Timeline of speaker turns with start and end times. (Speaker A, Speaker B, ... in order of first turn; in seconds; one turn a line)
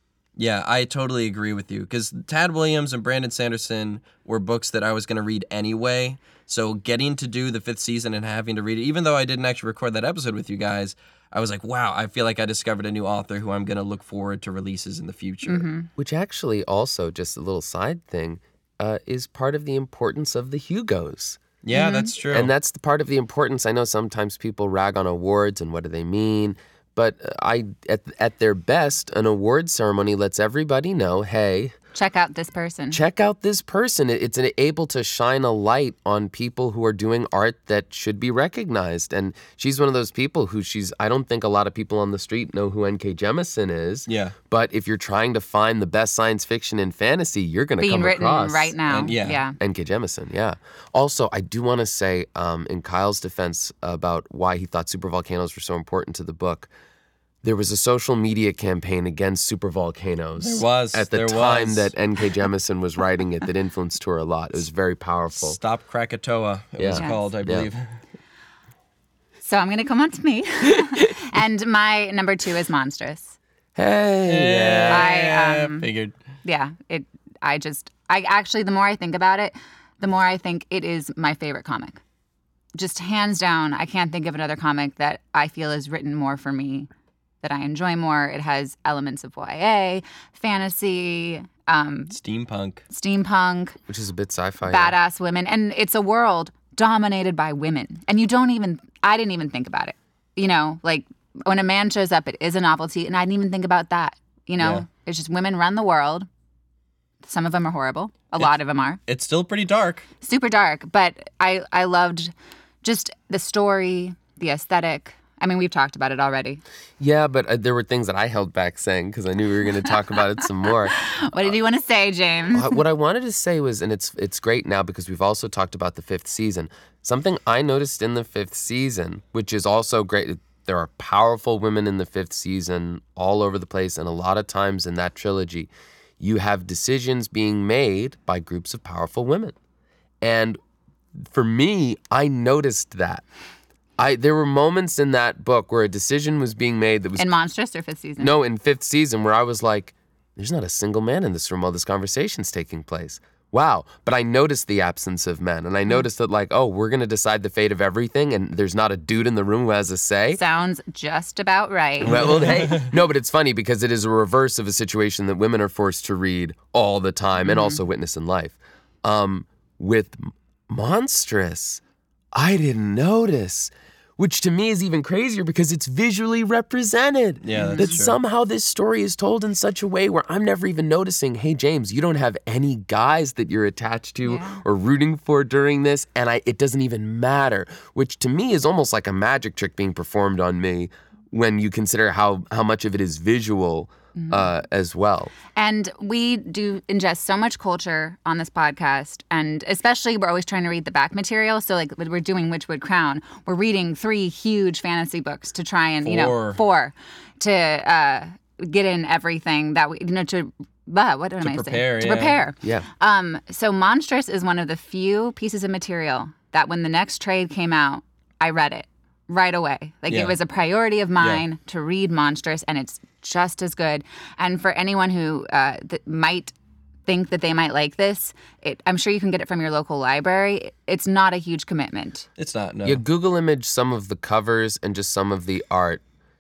Speaker A: 0.4-15.7
Speaker B: 15.4-15.9
Speaker C: 16.0-21.4
Speaker A: 21.6-22.5
Speaker B: 21.7-22.1
Speaker C: 22.3-31.7
Speaker B: 31.9-33.0
Speaker C: 32.9-48.8
Speaker A: 44.1-44.4
Speaker B: 47.8-49.6
Speaker A: 48.9-49.4
Speaker C: 49.6-56.7
Speaker C: 57.4-65.6
Speaker A: 60.4-61.9
Speaker A: 65.3-67.8
Speaker C: 66.8-67.7
Speaker B: 69.4-73.3
Speaker C: 70.7-71.0
Speaker C: 73.8-75.0
Speaker A: 74.3-76.1
Speaker B: 74.9-75.9
Speaker B: 76.4-82.0
Speaker B: 82.8-86.9
Speaker B: 87.4-92.1
Speaker A: 92.1-92.8
Speaker B: 92.9-93.8
Speaker C: 93.9-94.9
Speaker B: 94.7-106.3
Speaker A: 104.6-104.8
Speaker B: 107.2-109.0
Speaker A: 109.1-110.0
Speaker B: 110.2-112.3
Speaker B: 112.8-116.6
Speaker C: 117.0-121.0
Speaker B: 120.9-122.8
Speaker C: 122.5-139.5
Speaker C: 140.2-140.6
Speaker C: 141.2-143.2
Speaker C: 144.0-147.3
Speaker B: 147.2-148.3
Speaker C: 148.2-160.4
Speaker B: 160.3-162.5
Speaker C: 162.0-171.8
Speaker A: 162.2-162.8
Speaker B: 167.4-167.8
Speaker C: 172.3-195.3
Speaker A: 177.4-178.2
Speaker B: 177.5-178.0
Speaker B: 184.2-184.6
Speaker B: 194.1-194.5
Speaker B: 195.5-226.5
Speaker A: 206.0-206.6
Speaker A: 211.4-212.4
Speaker A: 220.1-220.3
Speaker B: 227.1-232.3
Speaker A: 232.4-233.0
Speaker C: 232.8-236.0